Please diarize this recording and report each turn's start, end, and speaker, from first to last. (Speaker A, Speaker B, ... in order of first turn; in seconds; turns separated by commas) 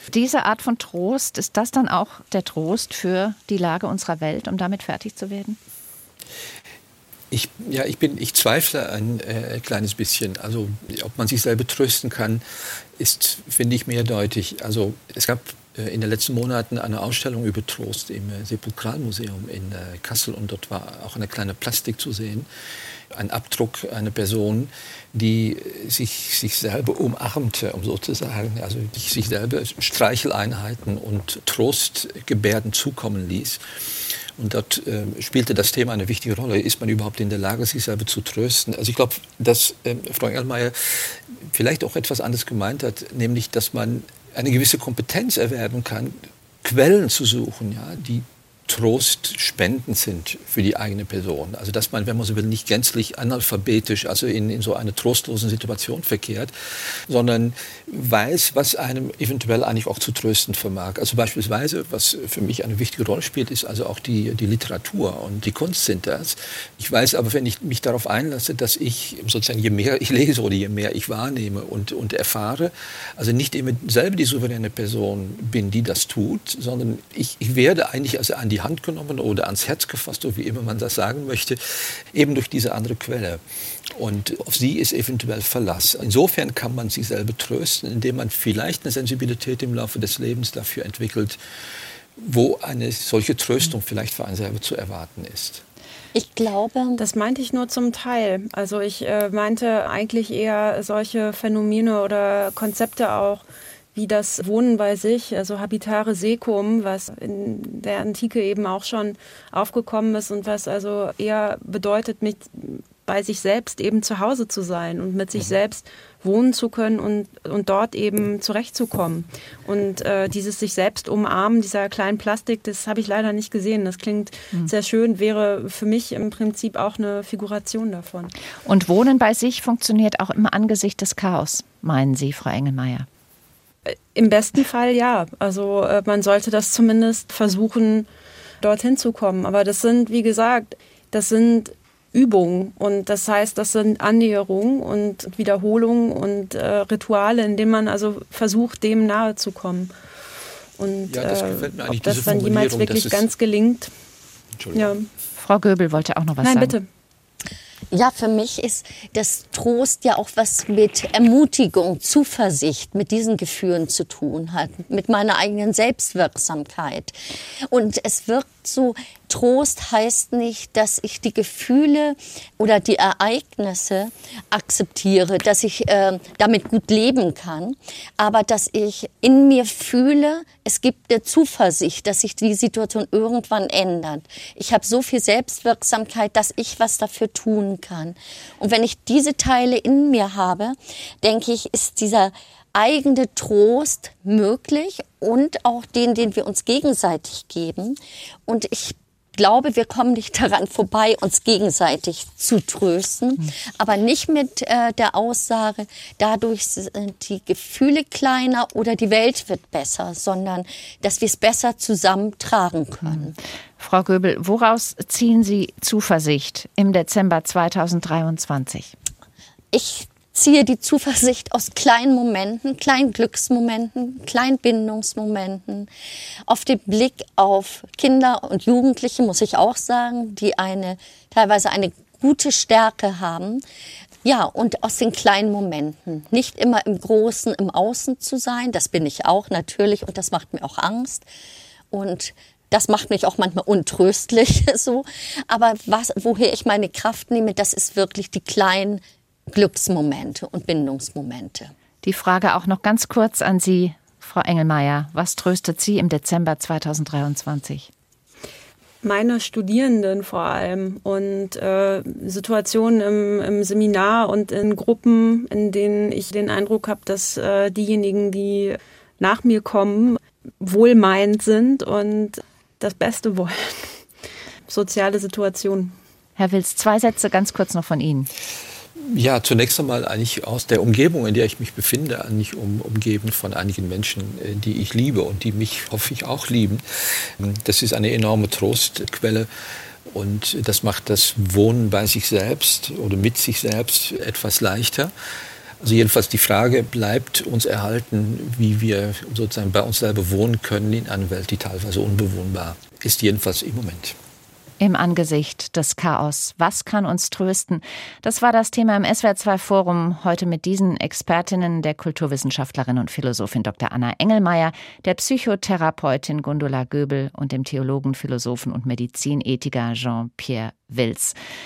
Speaker A: 0.1-5.6, Speaker B: 7.3-12.4, Speaker B: 13.0-22.4, Speaker B: 23.1-33.6, Speaker B: 34.4-56.5, Speaker B: 57.1-81.6, Speaker B: 82.1-83.4, Speaker B: 83.9-91.4, Speaker B: 92.2-95.6, Speaker C: 96.1-97.0, Speaker D: 97.0-103.4, Speaker D: 103.9-128.3, Speaker A: 128.7-133.1, Speaker D: 133.9-138.1, Speaker D: 138.6-149.9, Speaker D: 150.8-153.9, Speaker B: 151.1-153.3, Speaker B: 154.6-154.9, Speaker D: 154.7-155.1, Speaker A: 155.4-156.8, Speaker D: 156.4-156.8, Speaker C: 157.9-167.1, Speaker C: 167.6-213.3, Speaker A: 213.8-218.9, Speaker C: 219.7-225.9, Speaker C: 226.4-233.6, Speaker C: 234.2-241.2, Speaker C: 241.9-251.7, Speaker A: 252.0-257.9, Speaker D: 259.0-273.9, Speaker D: 274.7-275.9, Speaker A: 276.4-278.3, Speaker B: 279.0-289.5, Speaker B: 290.1-295.1, Speaker B: 295.8-304.1, Speaker A: 304.8-321.3